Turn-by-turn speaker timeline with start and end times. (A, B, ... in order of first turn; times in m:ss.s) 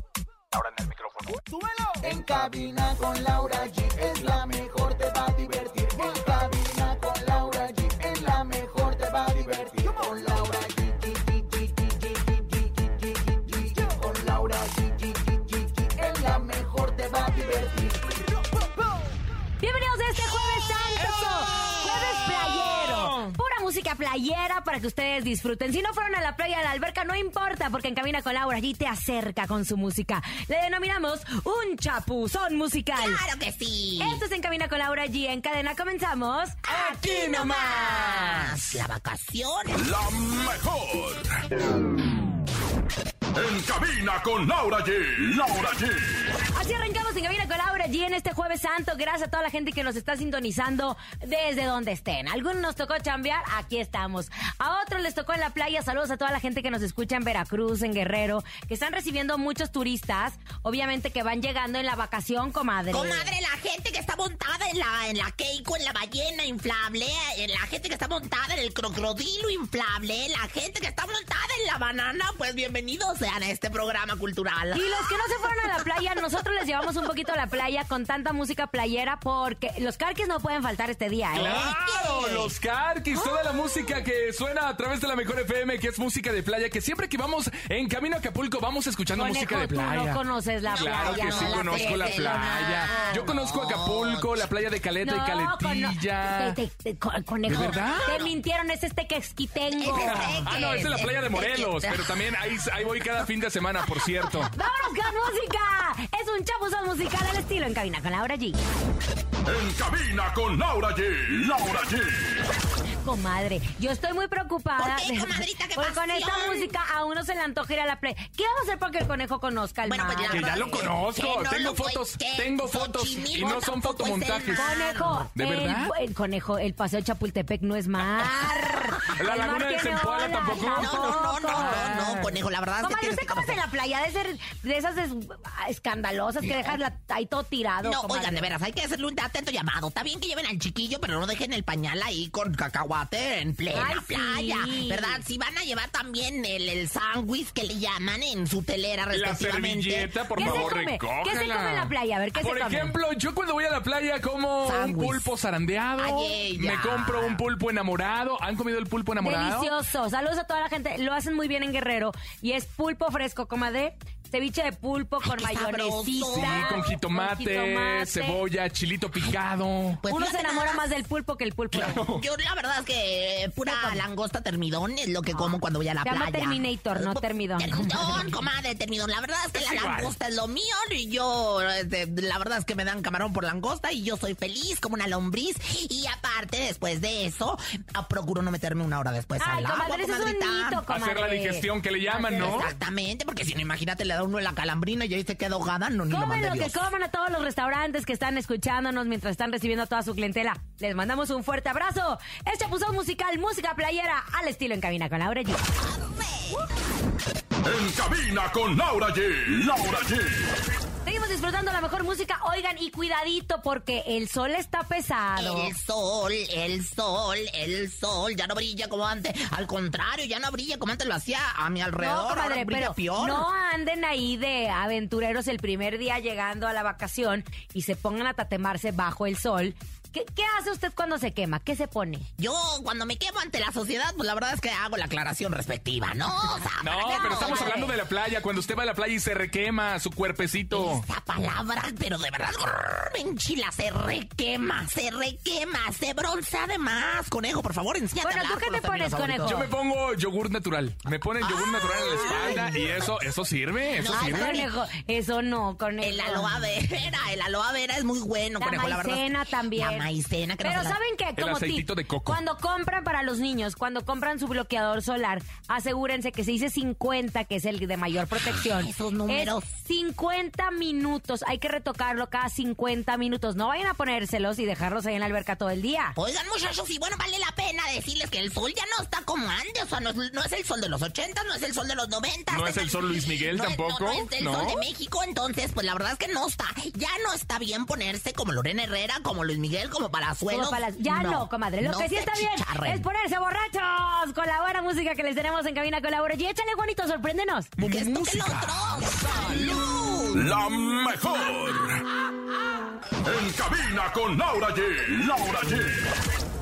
0:00.5-0:01.5 A
0:01.5-0:18.2 B
0:02.0-0:02.9 A
0:04.0-0:06.7 A
0:09.5-0:09.8 A
0:19.6-0:33.2 C
0:21.0-0:23.4 D
0:33.0-0:34.2 E
0:34.0-0:38.4 C
0:36.7-0:38.8 D
0:36.7-0:39.8 E
0:39.8-0:41.3 F
0:43.4-0:46.4 F
0:46.5-1:03.3 C
1:02.9-1:15.1 E
1:14.7-1:21.6 C
1:21.3-1:36.6 D
1:21.4-1:22.5 E
1:29.2-1:33.3 C
1:30.7-1:34.4 E
1:35.0-1:40.3 C
1:37.5-1:38.1 D
1:37.6-1:38.3 E
1:39.8-1:42.2 E
1:39.9-1:44.5 D
1:44.5-1:48.6 C
1:49.4-1:52.4 F
1:53.0-2:00.5 C
1:54.8-1:56.7 E
1:59.8-2:05.3 E
2:00.3-2:04.7 D
2:04.5-2:12.0 C
2:05.3-2:05.9 D
2:09.0-2:12.4 D
2:10.6-2:13.6 E
2:12.8-2:18.5 C
2:16.4-2:16.8 E
2:17.8-2:30.7 E
2:23.7-2:25.2 C
2:29.1-2:39.7 D
2:30.4-2:33.0 C
2:34.6-2:35.3 E
2:36.0-2:37.4 E
2:39.2-2:48.4 C
2:45.2-2:46.8 E
2:46.3-2:50.0 D
2:50.0-2:50.9 E
2:50.1-2:52.0 C
2:51.7-2:52.2 D
2:52.0-3:10.8 E
2:53.7-2:54.0 C
2:55.3-2:57.9 C
2:59.5-3:00.1 D
3:09.4-3:12.7 C
3:10.9-3:12.7 D
3:12.3-3:16.8 E
3:16.1-3:25.6 C
3:25.8-3:26.6 E
3:27.6-3:30.6 F
3:31.0-3:35.8 C
3:35.4-3:43.5 E
3:42.0-3:52.3 C
3:52.4-3:57.9 E
3:56.8-4:01.0 D
3:57.0-3:58.0 C
4:00.7-4:09.7 E
4:08.2-4:09.7 C
4:09.5-4:14.7 D
4:11.4-4:13.2 E
4:12.2-4:12.6 C
4:13.9-4:14.7 E
4:14.1-4:16.6 C
4:16.0-4:21.0 E
4:18.6-4:36.2 C
4:21.4-4:22.4 D
4:28.5-4:29.7 E
4:36.2-4:53.1 E
4:42.5-4:44.8 D
4:50.5-4:57.7 C
4:57.8-4:59.8 D
4:57.8-5:00.5 E
5:00.4-5:02.0 F
5:03.2-5:06.1 F